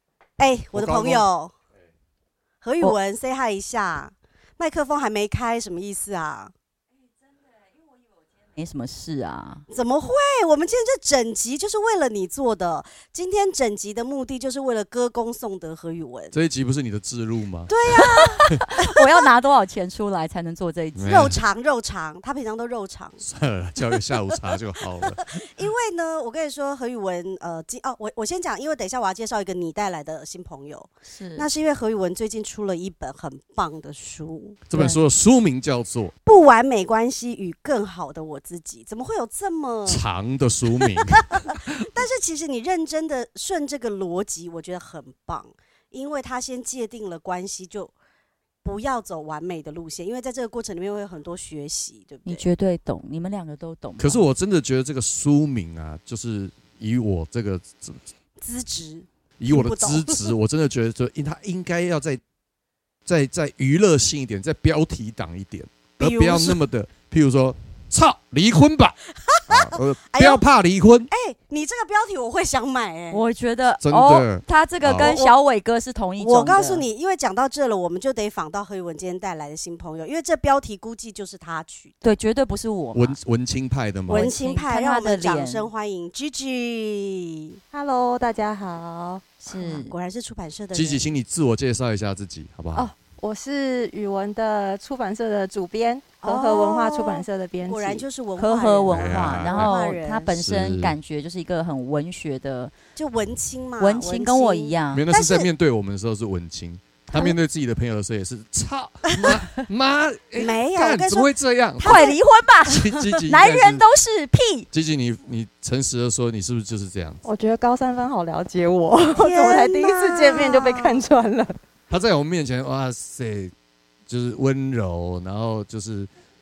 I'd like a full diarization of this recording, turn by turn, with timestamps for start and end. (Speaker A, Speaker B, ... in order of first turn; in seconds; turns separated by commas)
Speaker A: 0.4-1.5, Speaker B: 0.7-1.2, Speaker A: 2.6-6.5, Speaker C: 8.6-9.6, Speaker A: 9.7-16.4, Speaker B: 16.3-17.8, Speaker A: 17.7-19.0, Speaker C: 17.9-21.3, Speaker B: 21.0-21.4, Speaker A: 21.1-23.2, Speaker B: 23.2-25.5, Speaker A: 24.1-34.8, Speaker C: 31.1-31.5, Speaker B: 34.7-36.1, Speaker A: 36.3-40.0, Speaker B: 39.9-41.9, Speaker A: 40.7-47.9, Speaker A: 48.6-52.4, Speaker C: 52.3-54.2, Speaker B: 54.0-58.0, Speaker A: 58.4-60.4, Speaker B: 59.4-62.2, Speaker B: 63.1-71.1, Speaker A: 66.0-66.6, Speaker A: 69.2-70.4, Speaker A: 71.1-73.2, Speaker C: 73.1-76.9, Speaker B: 73.8-75.2, Speaker A: 75.0-75.3, Speaker A: 76.2-82.0, Speaker C: 82.0-83.2, Speaker B: 83.0-84.3, Speaker A: 84.1-87.6, Speaker C: 84.1-85.7, Speaker D: 87.7-89.4, Speaker C: 89.5-89.9, Speaker A: 89.6-91.0, Speaker B: 90.7-92.9, Speaker D: 92.8-98.1, Speaker A: 96.2-100.4, Speaker C: 98.4-102.7, Speaker B: 98.9-99.8, Speaker B: 100.4-101.0, Speaker A: 103.0-105.5, Speaker C: 103.8-105.0, Speaker B: 104.9-112.0, Speaker A: 110.4-112.2, Speaker C: 111.8-114.7, Speaker B: 112.7-113.8, Speaker A: 112.8-113.1, Speaker B: 114.7-117.2, Speaker D: 117.2-121.6, Speaker A: 119.2-121.0, Speaker B: 121.9-123.5, Speaker B: 124.1-126.1